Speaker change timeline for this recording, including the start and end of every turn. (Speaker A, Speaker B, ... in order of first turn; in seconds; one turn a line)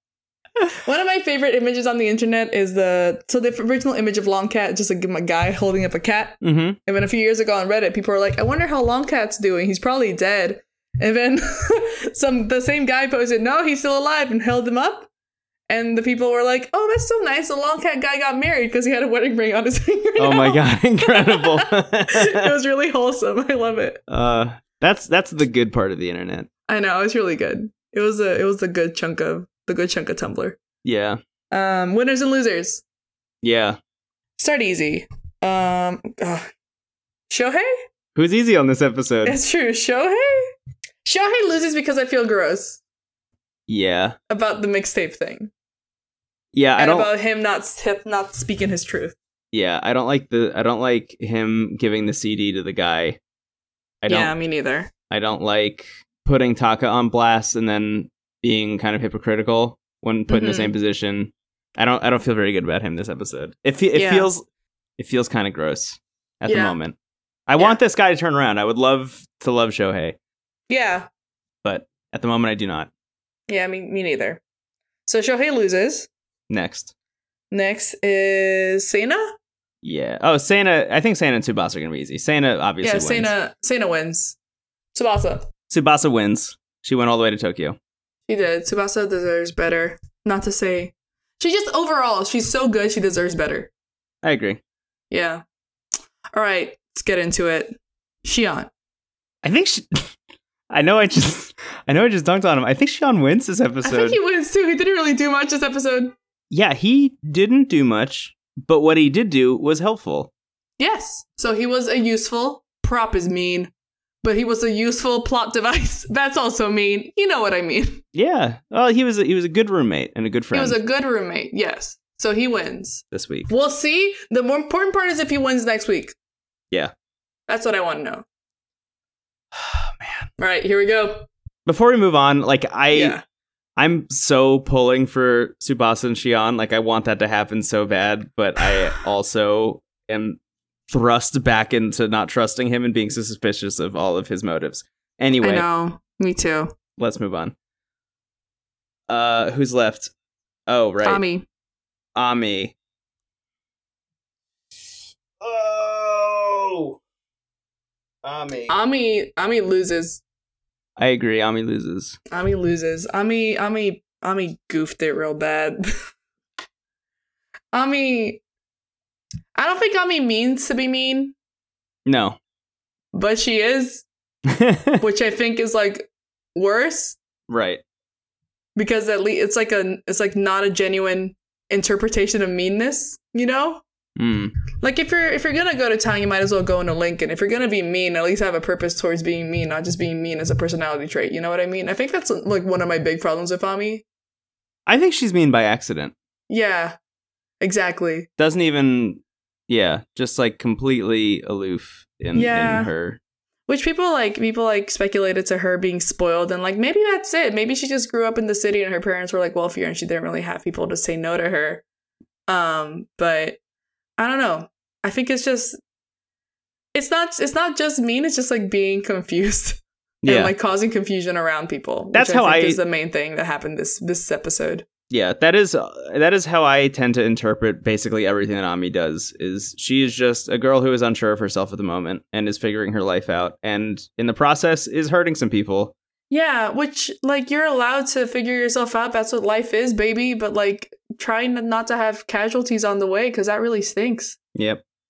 Speaker A: 0.8-15.1
Speaker B: 6.4-6.8
Speaker A: 15.7-24.0
Speaker B: 20.2-22.5
Speaker B: 24.1-26.5
Speaker A: 26.7-30.6
Speaker B: 30.8-31.2
Speaker A: 31.5-32.8
Speaker B: 33.4-33.8
Speaker A: 34.4-36.5
Speaker A: 37.3-37.8
Speaker B: 38.2-39.4
Speaker A: 39.2-40.5
Speaker A: 41.0-42.8
Speaker B: 43.7-44.2
Speaker A: 44.3-45.5
Speaker B: 46.5-47.1
Speaker A: 46.8-49.1
Speaker B: 49.5-53.2
Speaker B: 54.0-54.4
Speaker A: 54.1-54.9
Speaker B: 55.1-64.4
Speaker A: 60.3-60.7
Speaker A: 63.9-64.3
Speaker B: 65.0-67.0
Speaker A: 66.5-66.8
Speaker B: 67.5-70.2
Speaker A: 70.7-71.1
Speaker B: 71.6-72.9
Speaker A: 73.5-74.4
Speaker A: 75.1-76.1
Speaker B: 76.5-76.9
Speaker A: 77.5-79.3
Speaker B: 79.8-83.3
Speaker A: 82.8-84.4
Speaker A: 84.9-85.5
Speaker B: 85.7-87.8
Speaker A: 88.3-93.7
Speaker B: 94.2-94.6
Speaker A: 95.1-95.4
Speaker A: 96.3-98.7
Speaker B: 99.4-100.1
Speaker B: 100.7-104.2
Speaker A: 103.8-106.1
Speaker B: 106.5-110.3
Speaker A: 110.8-113.7
Speaker A: 114.2-118.0
Speaker B: 118.2-120.8
Speaker A: 120.5-126.2
Speaker B: 123.1-123.5
Speaker A: 127.5-128.2
Speaker B: 129.5-130.3
Speaker A: 130.4-131.3
Speaker B: 131.7-133.2
Speaker A: 132.9-133.2
Speaker B: 133.8-145.7
Speaker A: 145.4-146.8
Speaker B: 147.0-147.5
Speaker B: 149.1-150.1
Speaker B: 150.7-151.2
Speaker A: 151.0-151.5
Speaker B: 152.2-152.7
Speaker B: 155.4-157.0
Speaker B: 158.2-158.8
Speaker A: 158.7-160.2
Speaker B: 161.0-162.2
Speaker A: 162.3-165.8
Speaker A: 167.7-168.4
Speaker A: 169.6-171.3
Speaker B: 172.1-172.4
Speaker A: 173.1-174.1
Speaker B: 174.5-175.0
Speaker A: 175.0-177.2
Speaker B: 177.5-177.8
Speaker A: 178.8-183.8
Speaker B: 184.2-184.5
Speaker A: 184.8-194.0
Speaker B: 194.9-196.1
Speaker A: 196.5-197.0
Speaker A: 197.6-198.3
Speaker B: 198.4-203.2
Speaker A: 202.3-202.9
Speaker A: 203.7-211.8
Speaker A: 212.5-213.6
Speaker A: 214.2-215.8
Speaker A: 216.9-224.8
Speaker B: 220.2-220.5
Speaker B: 222.1-222.8
Speaker B: 225.1-235.9
Speaker A: 236.3-244.4
Speaker B: 244.6-244.8